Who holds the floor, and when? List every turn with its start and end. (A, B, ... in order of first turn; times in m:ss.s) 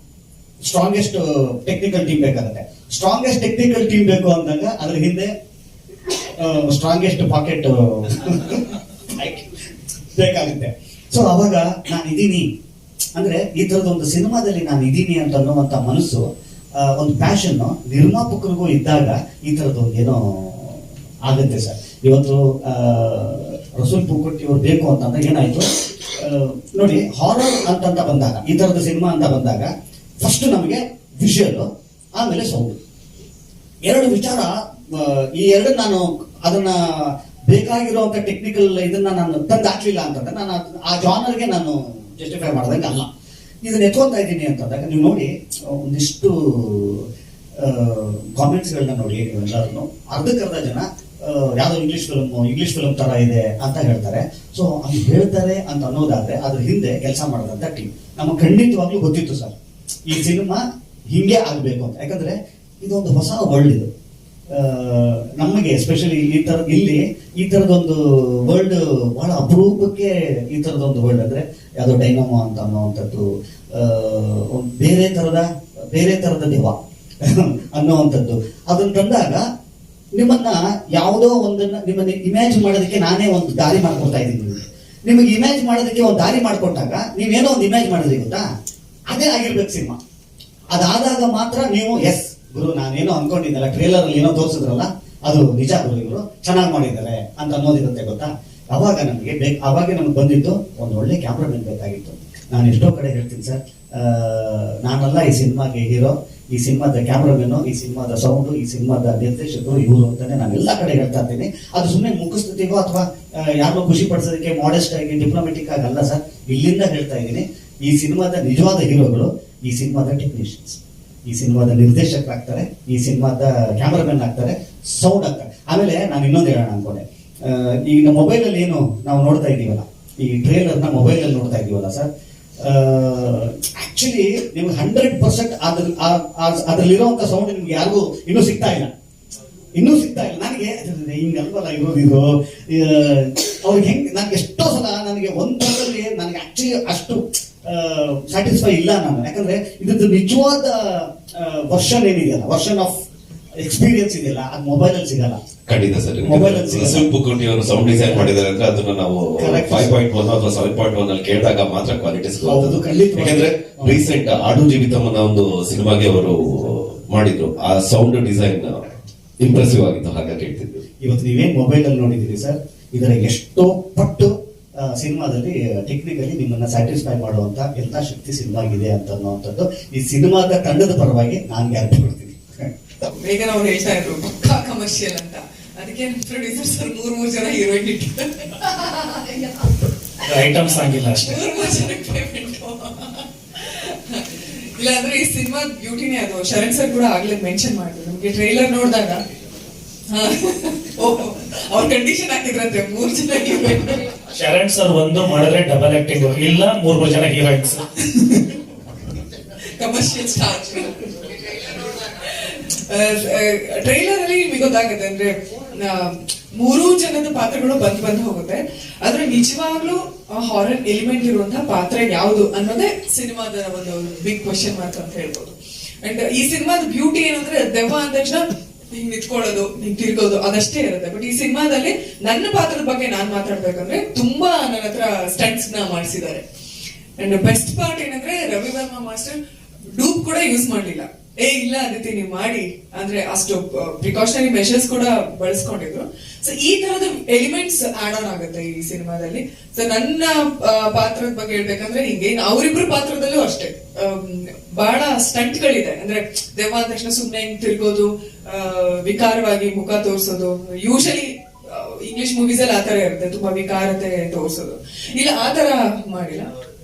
0:00.7-0:05.3 A
0:06.1-0:09.6 A
0:10.1-0:12.5 A
0:13.1-0:16.2 A
0:16.8-0:31.7 A
0:32.2-0:32.8 A
0:33.8-0:43.1 A
0:43.6-0:47.1 A
0:47.6-0:59.5 A
1:00.1-1:03.9 A
1:04.5-1:19.4 A
1:20.2-1:28.4 A
1:29.1-1:30.0 A
1:30.7-2:12.1 A
2:12.6-2:18.9 A
2:19.8-2:33.0 A
2:33.6-2:35.4 A
2:35.7-2:48.9 B
2:36.3-2:37.1 A
2:39.4-2:39.9 A
2:42.4-2:44.0 A
2:49.4-2:50.8 B
2:51.0-3:02.6 A
3:03.0-3:09.8 C
3:10.2-3:11.5 D
3:11.1-3:19.2 C
3:20.1-3:24.2 C
3:24.3-3:28.2 D
3:29.8-3:56.4 C
3:57.2-3:59.4 C
3:59.9-4:26.5 C